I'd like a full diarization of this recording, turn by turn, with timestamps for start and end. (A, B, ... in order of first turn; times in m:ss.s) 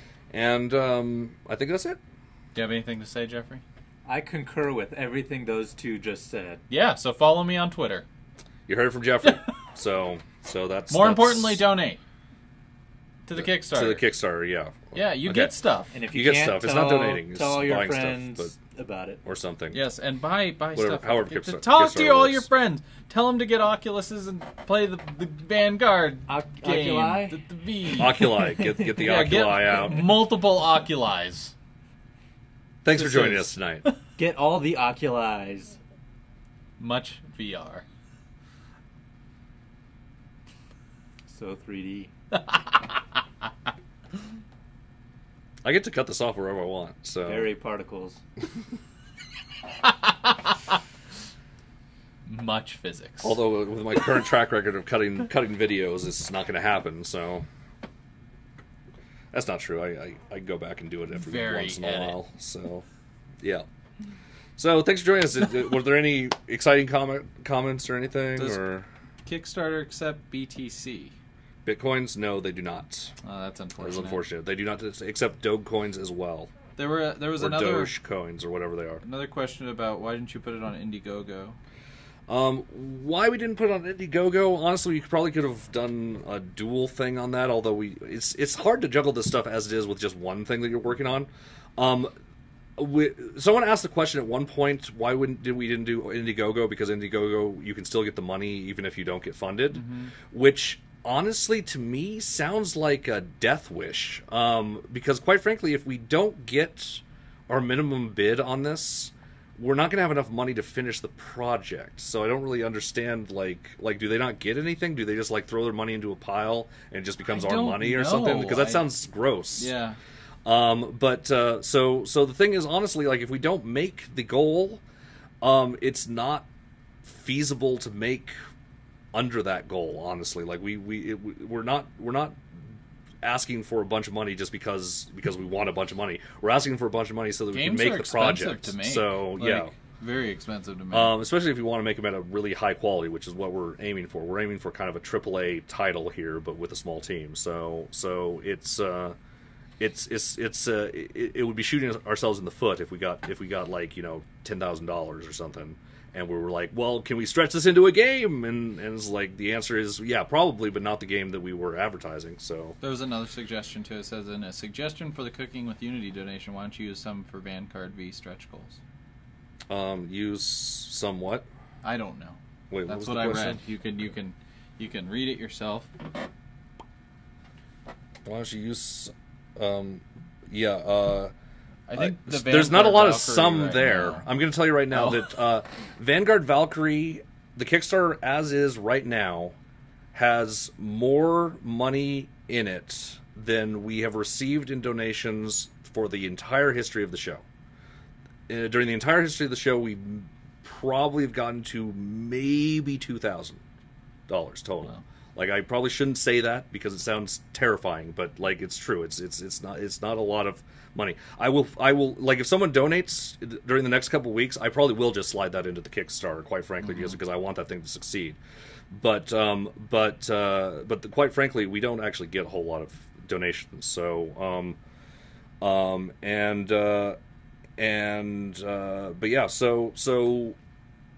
0:00.3-0:02.0 A
0:02.5-0:03.6 B
0:04.0-0:06.6 C
0:06.7-0:08.0 B
0:08.7-0:11.6 A
0:10.9-0:12.0 B
0:13.3-0:14.1 B
0:13.3-0:15.5 A
0:14.9-0:16.0 B
0:15.9-0:19.2 C
0:16.1-0:18.5 A
0:19.2-0:19.8 A
0:19.7-0:31.5 B
0:20.7-0:22.5 A
0:26.3-0:27.4 C
0:28.0-0:30.1 A
0:32.8-0:33.8 A
0:33.0-0:33.9 B
0:33.1-0:33.4 C
0:34.2-0:35.8 C
0:36.8-0:37.8 B
0:41.3-0:42.1 C
0:42.3-0:42.7 B
0:45.6-0:47.5 A
0:47.2-0:48.2 C
0:52.2-0:53.4 B
0:53.2-0:57.4 A
0:59.3-1:02.8 A
1:01.1-1:02.2 B
1:04.6-1:08.9 A
1:08.4-1:08.7 B
1:09.2-1:11.1 B
1:11.6-1:13.2 A
1:13.2-1:14.2 B
1:13.8-1:16.5 A
1:16.8-1:17.9 B
1:17.4-1:19.0 A
1:19.0-1:21.6 B
1:22.3-1:32.1 A
1:32.8-1:59.7 A
1:39.7-1:40.1 B
1:57.3-1:58.9 B
1:59.6-2:00.0 B
2:00.4-2:04.8 A
2:05.4-2:06.5 A
2:07.0-2:08.4 A
2:09.1-2:12.6 A
2:13.2-2:19.7 A
2:17.5-2:21.2 B
2:20.9-2:29.2 A
2:29.8-2:42.8 A
2:42.8-2:48.8 B
2:49.7-2:51.4 A
2:51.8-2:55.9 B
2:52.7-2:53.6 A
2:58.2-3:01.3 A
3:01.9-3:04.2 B
3:01.9-3:09.6 A
3:04.9-3:05.3 B
3:10.1-3:17.4 A
3:18.5-3:23.6 A
3:24.3-3:38.4 A
3:36.8-3:37.2 B
3:38.9-3:44.8 A
3:45.6-3:47.2 A
3:47.8-3:50.6 A